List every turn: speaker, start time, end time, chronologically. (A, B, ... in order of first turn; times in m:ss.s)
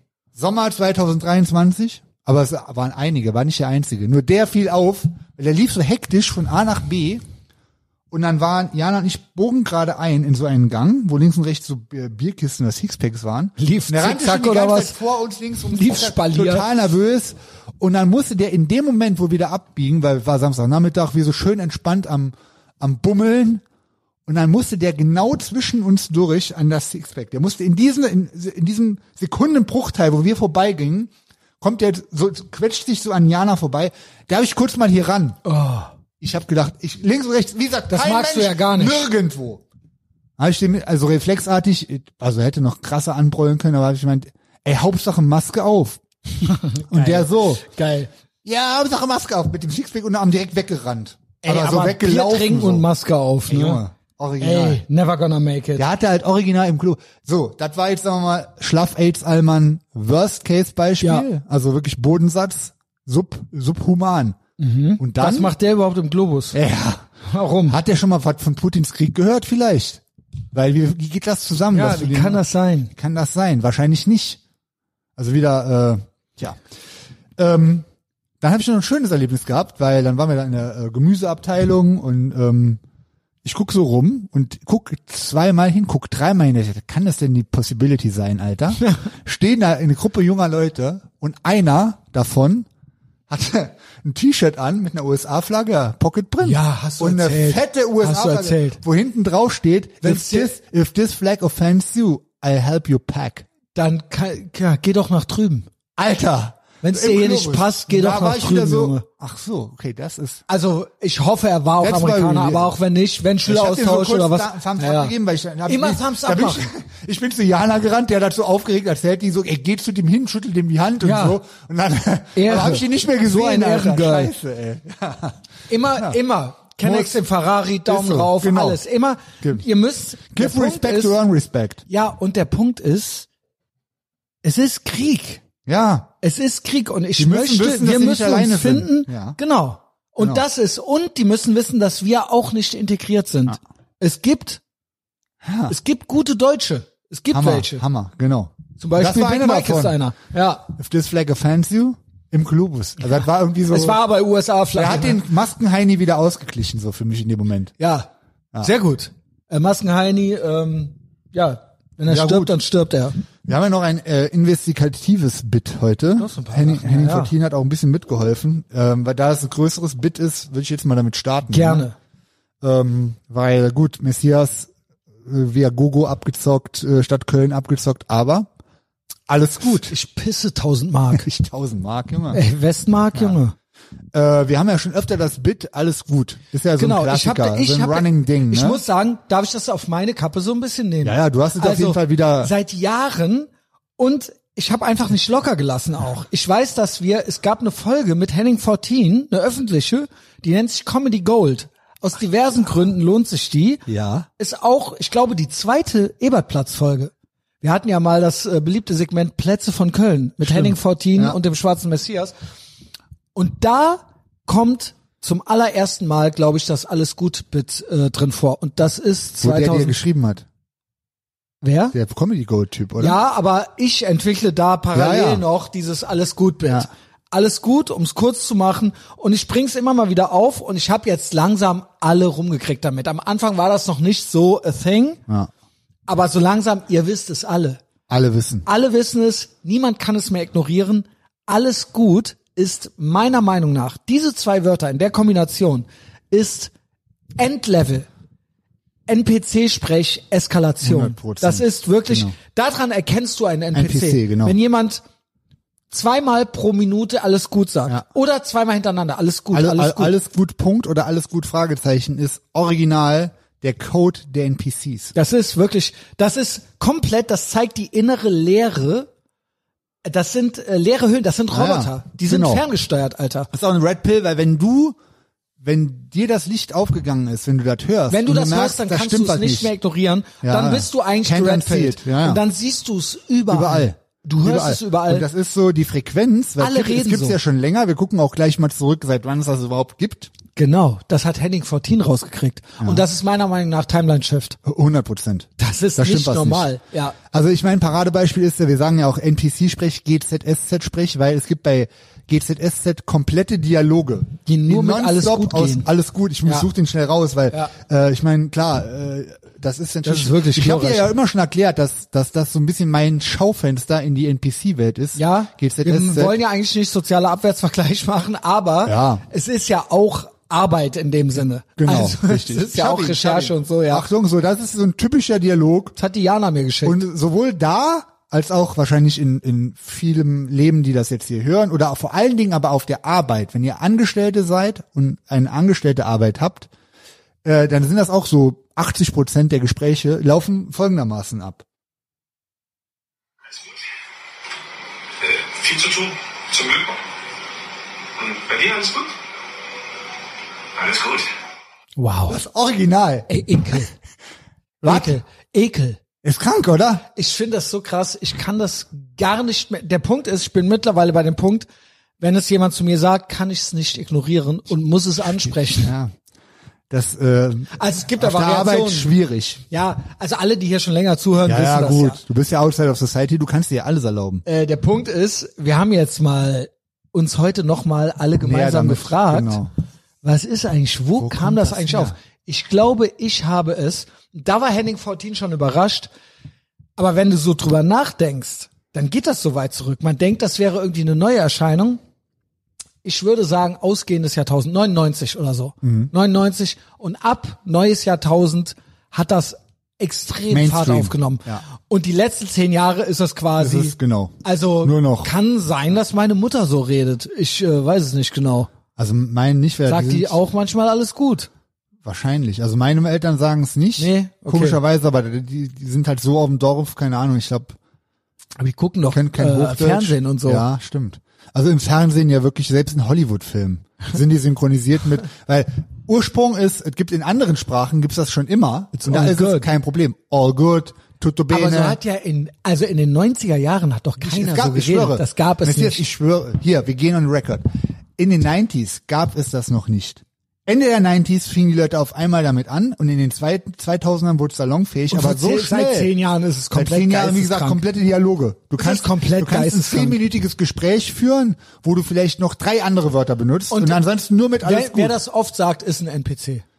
0:00.3-0:07.2 A
0:08.1-0:23.6 A
0:13.6-0:15.0 B
0:15.7-0:16.7 B
0:24.2-0:35.4 A
0:35.4-0:35.9 B
0:36.2-0:39.6 A
0:37.9-0:39.0 B
0:40.4-0:46.0 A
0:46.4-0:48.1 B
0:46.9-0:47.6 A
0:48.4-0:52.9 A
0:51.4-0:53.8 B
0:53.5-0:54.8 A
0:54.4-0:55.8 B
0:55.8-1:04.4 A
1:04.6-1:06.6 B
1:05.0-1:05.5 A
1:06.5-1:07.0 A
1:07.3-1:07.8 B
1:07.7-1:10.0 A
1:10.5-1:14.4 A
1:11.7-1:12.9 B
1:15.2-1:16.6 A
1:17.4-1:17.9 A
1:18.4-1:22.8 A
1:23.4-1:32.7 A
1:33.3-1:43.4 A
1:36.4-1:38.8 B
1:40.0-1:40.5 B
1:43.7-1:45.7 B
1:46.0-1:50.4 A
1:46.8-1:49.0 B
1:50.5-1:55.1 B
1:51.8-1:52.7 A
1:53.4-2:06.2 A
1:55.6-1:56.7 B
2:01.0-2:01.4 B
2:02.3-2:04.3 B
2:05.7-2:11.1 B
2:06.8-2:07.2 A
2:07.8-2:08.8 A
2:10.3-2:11.8 A
2:11.9-2:13.3 B
2:14.4-2:15.4 B
2:15.6-2:16.1 A
2:16.2-2:24.6 B
2:17.2-2:19.4 A
2:25.4-2:25.8 A
2:25.7-2:27.8 B
2:27.3-2:30.0 A
2:28.8-2:30.7 B
2:30.7-2:34.0 A
2:33.7-2:35.2 B
2:34.7-2:37.7 A
2:37.8-2:38.1 B
2:38.6-2:43.2 B
2:42.1-2:42.5 A
2:43.4-2:51.9 A
2:46.2-2:47.3 B
2:51.5-2:51.9 B
2:52.6-2:54.7 A
2:55.2-2:58.5 A
2:59.3-2:59.9 A
2:59.9-3:01.2 B
3:01.1-3:02.4 A
3:02.3-3:03.5 B
3:04.1-3:08.8 A
3:06.8-3:32.3 B
3:11.0-3:12.5 A
3:23.9-3:24.3 A
3:30.4-3:31.4 A
3:33.3-3:40.0 B
3:39.4-3:40.4 A
3:41.6-3:41.9 B
3:41.9-3:43.2 A
3:43.0-3:55.2 B
3:44.9-3:45.4 A
3:56.1-3:57.8 B
3:58.1-3:58.6 A
3:58.6-4:06.7 B
4:07.4-4:08.1 B
4:09.1-4:15.0 B
4:10.8-4:12.3 A
4:13.7-4:14.6 A
4:15.9-4:20.2 B
4:19.5-4:25.1 A
4:25.1-4:29.1 B
4:30.0-4:33.5 B
4:31.5-4:32.6 A
4:33.5-4:35.0 A
4:35.6-4:39.7 A
4:38.1-4:45.3 B
4:40.4-4:42.4 A
4:43.5-4:50.3 A
4:46.6-4:47.4 B
4:50.6-4:54.6 B
4:54.6-4:56.7 A
4:55.6-4:57.2 B
4:57.3-5:16.4 A
5:04.4-5:05.9 B
5:10.0-5:11.1 B
5:15.2-5:24.0 B
5:18.8-5:19.2 A
5:21.8-5:25.9 A
5:26.0-5:27.0 B
5:26.8-5:36.7 A
5:37.4-5:41.6 A
5:45.2-5:47.0 C
5:48.2-5:49.2 C
5:50.7-5:51.3 C
5:52.0-5:52.4 B
5:52.3-5:53.3 A
5:53.3-5:53.9 B
5:54.8-5:55.2 A
5:54.8-5:56.0 B
5:56.2-5:57.0 A
5:57.1-6:01.7 B
6:02.2-6:05.9 B
6:05.3-6:06.1 A
6:06.9-6:09.6 A
6:07.7-6:09.1 B
6:09.7-6:12.2 B
6:11.4-6:14.4 A
6:14.4-6:19.6 B
6:18.4-6:19.7 A
6:20.2-6:26.1 B
6:21.2-6:22.1 A
6:27.0-6:32.0 B
6:33.0-6:48.7 B
6:35.8-6:36.1 A
6:40.5-6:41.6 A
6:43.6-6:45.3 A
6:49.0-6:50.4 A
6:49.9-6:51.5 B
6:52.0-6:57.8 A
6:54.0-6:54.8 B
6:58.6-7:00.6 B
6:59.1-7:12.0 A
7:08.9-7:09.7 B
7:11.5-7:16.0 B
7:14.2-7:17.6 A
7:18.2-7:26.1 A
7:25.1-7:27.8 B
7:26.7-7:35.2 A
7:28.8-7:30.2 B
7:33.7-7:34.0 B
7:34.6-7:36.6 B